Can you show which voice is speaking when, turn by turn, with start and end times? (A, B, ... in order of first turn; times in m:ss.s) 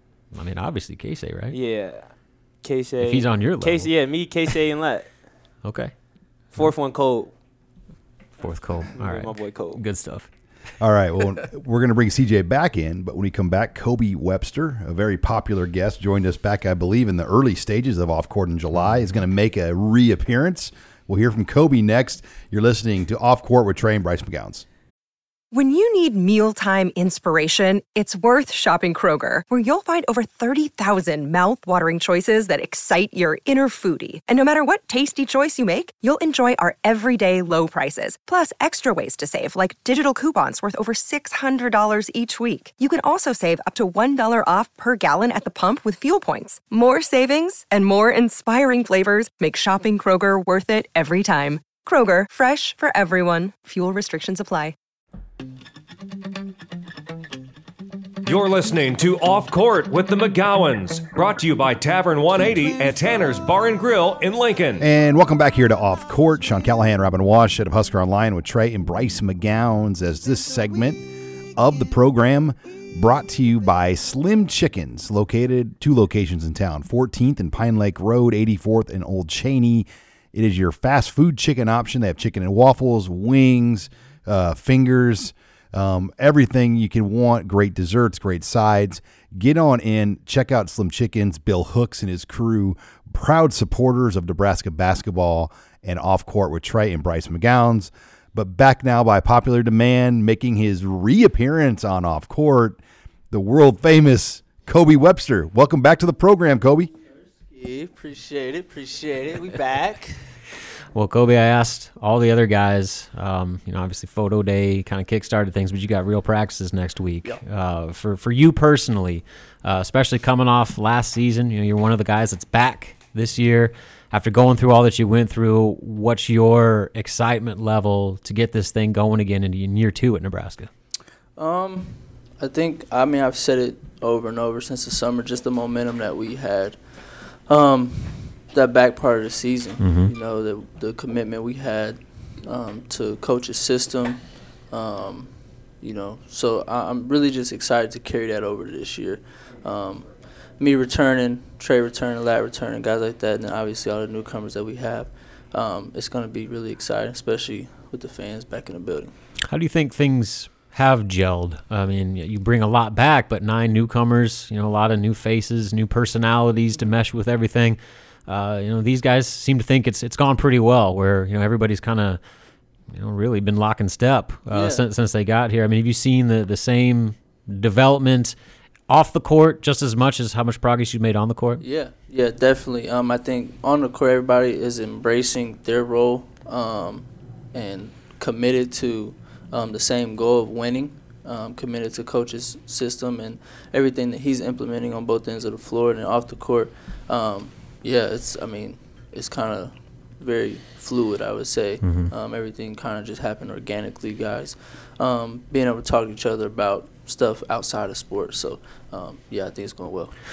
0:00.3-0:01.6 A
0:01.5-0:05.2 B
0:03.0-0:03.9 A
0:05.6-0:05.9 A
0:06.5-0:07.3 B
0:08.4-0:10.3 A
0:09.0-0:09.8 B
0:10.8-0:24.6 C
0:25.5-0:54.8 D
0:58.2-1:04.9 E
1:04.8-1:11.0 C
1:11.6-1:42.8 C
1:43.3-1:46.9 C
1:47.5-1:50.3 F
1:50.9-2:10.7 A
2:11.4-2:39.1 F
2:19.8-2:20.1 A
2:39.5-2:52.2 A
2:52.9-2:58.4 A
2:54.5-2:54.8 F
2:58.9-3:01.6 A
3:01.6-3:30.2 F
3:21.8-3:22.1 A